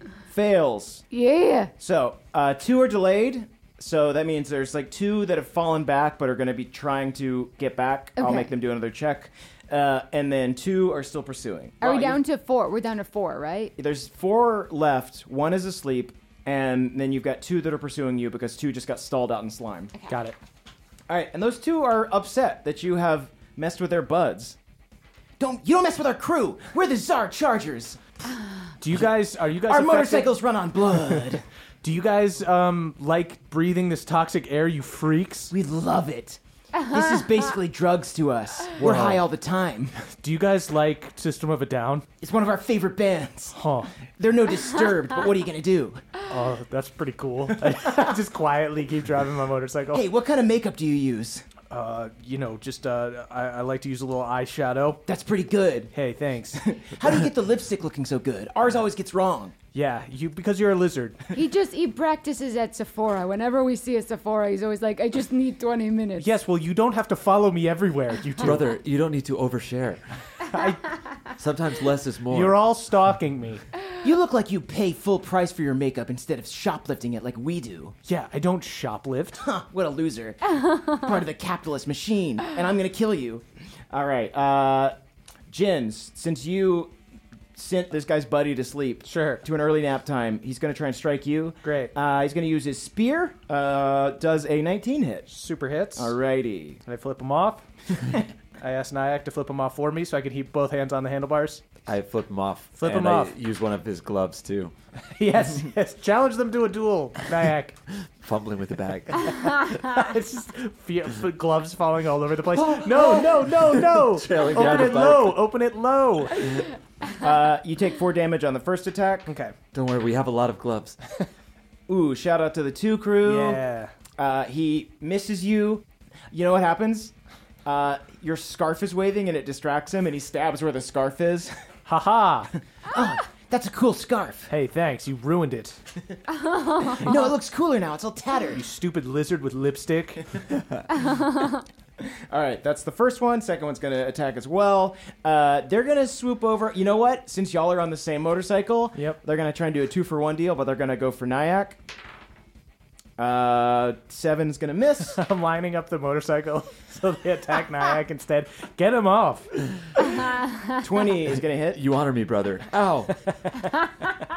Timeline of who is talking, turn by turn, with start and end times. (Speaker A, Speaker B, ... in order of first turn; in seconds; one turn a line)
Speaker A: 0.3-1.0
Speaker B: 1.1-1.7
Speaker A: 1.8-12.2
Speaker B: 8.2-8.5
Speaker B: 11.8-13.7
Speaker A: 13.8-19.9
Speaker C: 20.1-20.4
Speaker A: 21.1-24.6
Speaker A: 25.4-28.0
Speaker C: 28.8-30.3
Speaker A: 29.7-31.4
Speaker C: 31.8-35.5
Speaker A: 35.5-40.0
Speaker C: 38.8-39.2
Speaker C: 40.1-42.0
Speaker A: 42.2-43.6
Speaker C: 43.5-43.9
Speaker A: 44.2-46.0
Speaker C: 46.3-50.0
Speaker A: 47.7-48.1
Speaker A: 49.9-51.5
Speaker C: 51.7-55.0
Speaker A: 55.1-55.9
Speaker C: 55.9-56.6
Speaker A: 56.5-59.5
Speaker C: 59.7-61.2
Speaker B: 61.3-66.3
Speaker C: 66.2-68.7
Speaker D: 68.4-70.0
Speaker C: 70.5-70.8
Speaker D: 71.4-72.6
Speaker C: 72.3-73.6
Speaker A: 74.0-78.0
Speaker C: 78.0-79.5
Speaker A: 79.4-84.9
Speaker A: 85.5-86.9
Speaker A: 87.5-95.3
Speaker C: 89.1-89.4
Speaker C: 91.6-91.9
Speaker C: 95.3-96.2
Speaker A: 95.9-96.8
Speaker C: 96.8-97.6
Speaker C: 98.6-101.6
Speaker D: 101.8-104.7
Speaker C: 102.8-103.3
Speaker C: 105.2-107.8
Speaker D: 108.2-109.6
Speaker C: 109.6-116.6
Speaker D: 112.5-115.4
Speaker A: 117.2-119.3
Speaker C: 119.3-119.5
Speaker D: 119.7-121.0
Speaker A: 121.9-123.6
Speaker C: 123.2-123.9
Speaker A: 124.2-127.1
Speaker A: 127.6-131.5
Speaker C: 131.8-132.5
Speaker A: 132.8-134.5
Speaker C: 134.5-135.8
Speaker B: 136.3-137.3
Speaker A: 136.8-138.6
Speaker C: 138.5-140.2
Speaker B: 140.9-141.6
Speaker A: 142.0-151.8
Speaker A: 153.2-155.2
Speaker C: 155.2-159.9
Speaker A: 160.8-161.8
Speaker D: 161.7-163.1